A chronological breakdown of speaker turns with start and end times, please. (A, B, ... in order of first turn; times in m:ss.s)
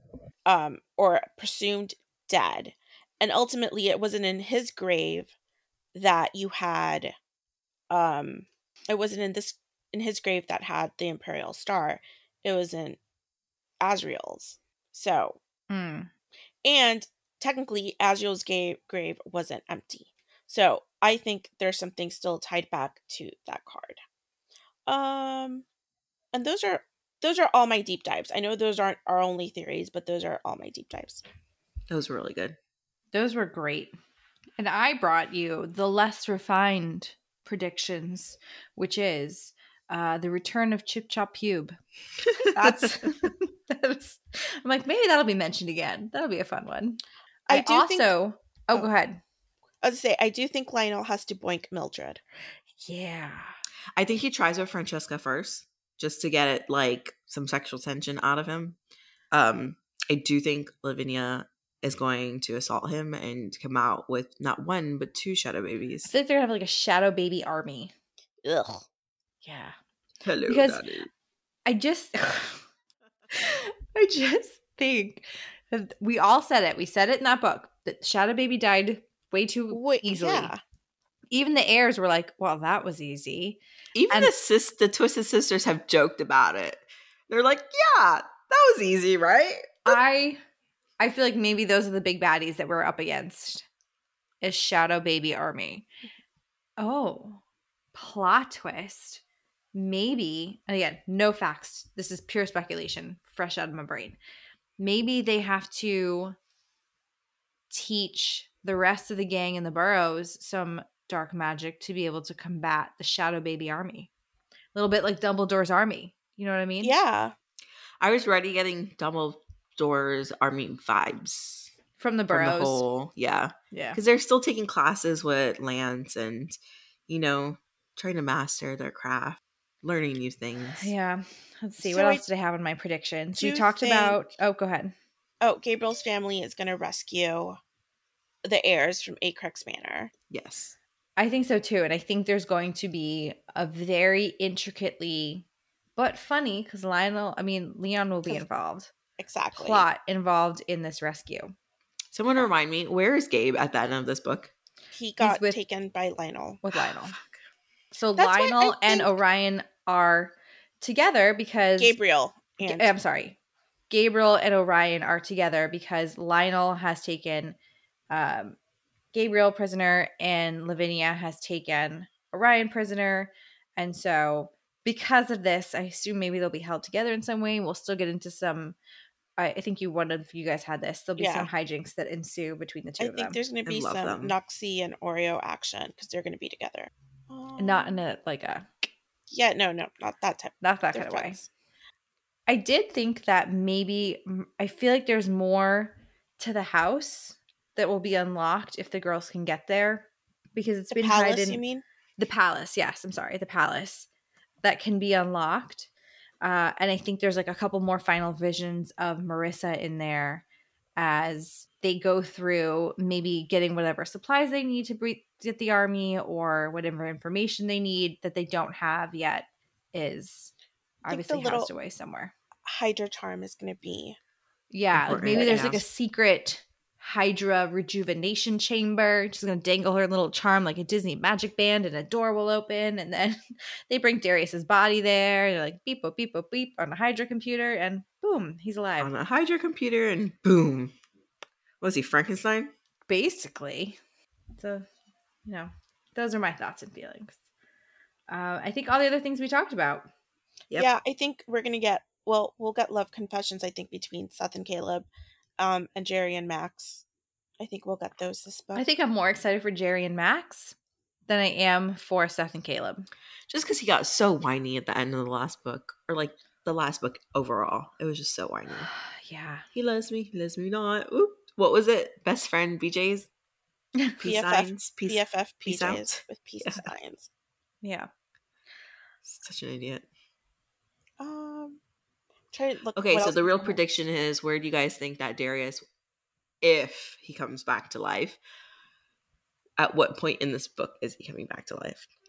0:00.4-0:05.3 A
0:05.9-0:07.1 A
0:07.9-0:13.0 A
0:13.8-0:15.4 A
0:15.7-0:16.1 B
0:16.6-0:24.0 A
0:24.9-0:25.6 A
0:26.3-0:31.2 A
0:31.9-0:32.6 C
0:33.1-0:33.9 B
0:34.6-0:41.8 B
0:42.4-0:49.2 B
0:42.4-0:43.3 C
0:47.5-0:48.1 A
0:49.8-0:52.2 A
0:52.8-0:53.5 B
0:54.0-0:58.8 C
0:59.3-1:06.1 C
1:06.1-1:07.9 B
1:08.4-1:08.8 A
1:09.4-1:09.8 B
1:10.2-1:11.1 C
1:10.5-1:10.8 B
1:11.6-1:12.6 B
1:13.3-1:20.5 B
1:19.7-1:20.6 A
1:21.3-1:23.6 B
1:23.9-1:30.0 C
1:29.8-1:30.4 B
1:31.0-1:33.7 B
1:34.4-1:35.9 B
1:36.8-1:37.4 B
1:37.9-1:39.2 B
1:39.7-1:44.2 B
1:44.8-1:46.4 B
1:47.7-1:54.1 B
1:54.7-1:56.9 B
1:56.8-1:57.3 A
1:58.0-2:01.7 C
2:02.0-2:02.8 B
2:02.3-2:06.6 C
2:03.7-2:04.0 B
2:07.1-2:10.9 C
2:10.8-2:14.9 B
2:11.8-2:12.2 A
2:13.3-2:14.2 A
2:15.4-2:17.6 A
2:18.4-2:20.1 A
2:20.3-2:20.8 C
2:21.2-2:28.9 B
2:29.2-2:29.8 A
2:29.6-2:31.5 B
2:32.1-2:34.5 C
2:34.9-2:36.6 A
2:35.2-2:35.6 B
2:36.6-2:37.2 B
2:37.9-2:42.0 B
2:38.2-2:39.2 A
2:41.8-2:42.9 A
2:42.6-2:43.4 B
2:43.9-2:47.6 B
2:48.1-2:48.6 B
2:49.1-2:58.8 B
2:59.4-3:03.4 B
3:01.2-3:01.5 A
3:03.0-3:08.0 A
3:03.6-3:04.3 C
3:07.6-3:08.9 B
3:09.3-3:11.5 A
3:10.6-3:11.4 B
3:12.5-3:21.6 B
3:20.9-3:21.8 A
3:22.2-3:24.1 B
3:24.6-3:25.9 B
3:26.4-3:30.4 B
3:31.0-3:40.5 B
3:41.0-3:42.3 B
3:41.1-3:41.7 A
3:42.6-3:44.2 A
3:44.7-3:59.1 B
3:44.9-3:45.8 C
3:45.3-3:45.6 A
3:59.0-4:00.9 C
4:01.8-4:02.7 C
4:03.1-4:04.0 B
4:04.5-4:04.9 B
4:05.4-4:07.4 B
4:08.3-4:10.1 B
4:10.8-4:15.1 A
4:15.6-4:17.0 A
4:17.6-4:18.8 A
4:18.8-4:20.8 B
4:21.3-4:23.1 B
4:23.5-4:28.9 C
4:28.9-4:29.6 B
4:29.7-4:33.3 C
4:34.2-4:36.9 C
4:34.2-4:37.3 A
4:37.8-4:38.1 B
4:39.2-4:40.0 C
4:41.2-4:41.8 A
4:42.5-4:43.8 A
4:43.0-4:45.8 C
4:46.6-4:48.4 C
4:49.8-4:52.1 C